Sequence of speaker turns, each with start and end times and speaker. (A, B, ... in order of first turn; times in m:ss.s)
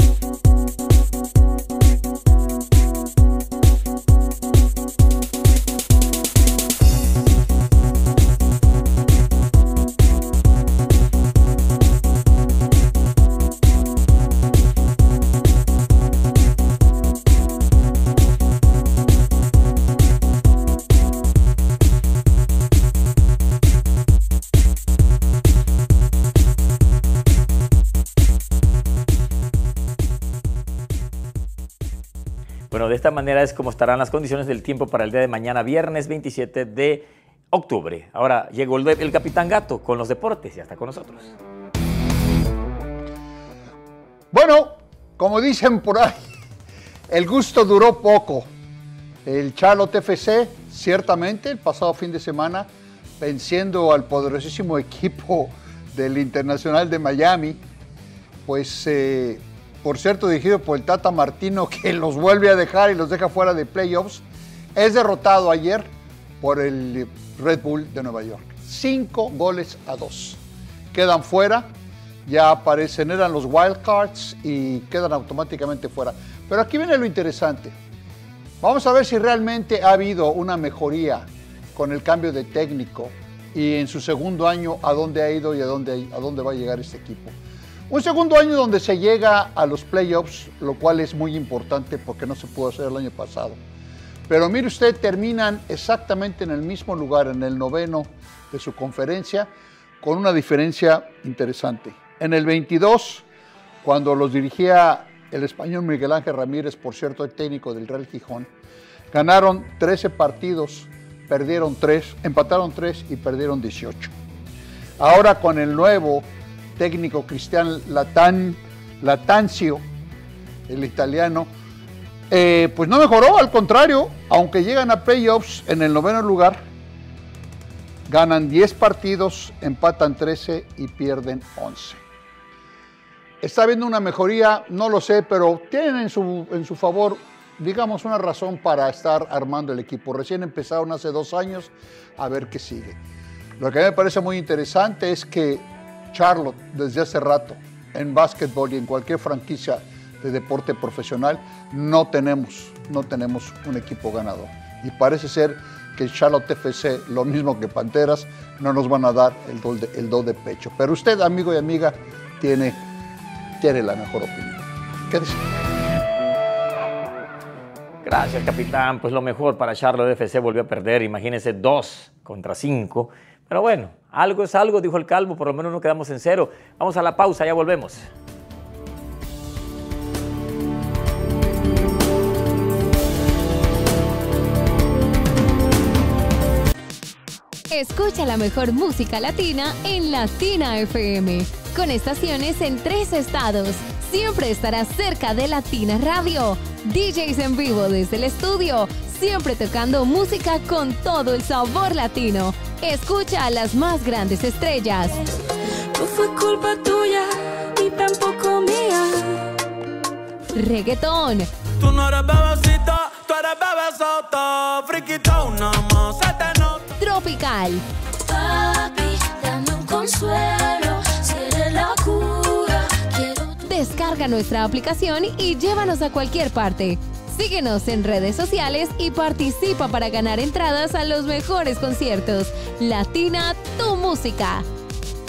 0:32.7-0:41.4 A
0:44.3-0:46.2 B
0:47.1-0:48.5 B
0:49.2-0:52.7 B
0:53.2-0:57.6 B
0:58.5-1:04.2 B
1:04.8-1:05.9 B
1:06.4-1:10.4 B
1:10.9-1:11.7 B
1:12.2-1:17.8 B
1:18.6-1:27.4 B
1:27.9-1:33.6 B
1:34.3-1:39.5 B
1:40.0-1:43.2 B
1:43.8-1:48.5 B
1:49.1-1:54.2 B
1:55.0-1:59.8 B
2:00.7-2:01.5 B
2:02.3-2:06.6 B
2:08.1-2:12.0 B
2:13.4-2:23.0 B
2:23.6-2:42.8 B
2:43.6-2:45.5 B
2:48.0-2:58.1 A
3:07.7-3:25.2 C
3:25.9-3:29.6 D
3:30.6-3:31.5 C
3:31.8-3:36.8 E
3:37.0-3:37.8 C
3:38.3-3:43.7 D
3:43.7-3:54.7 C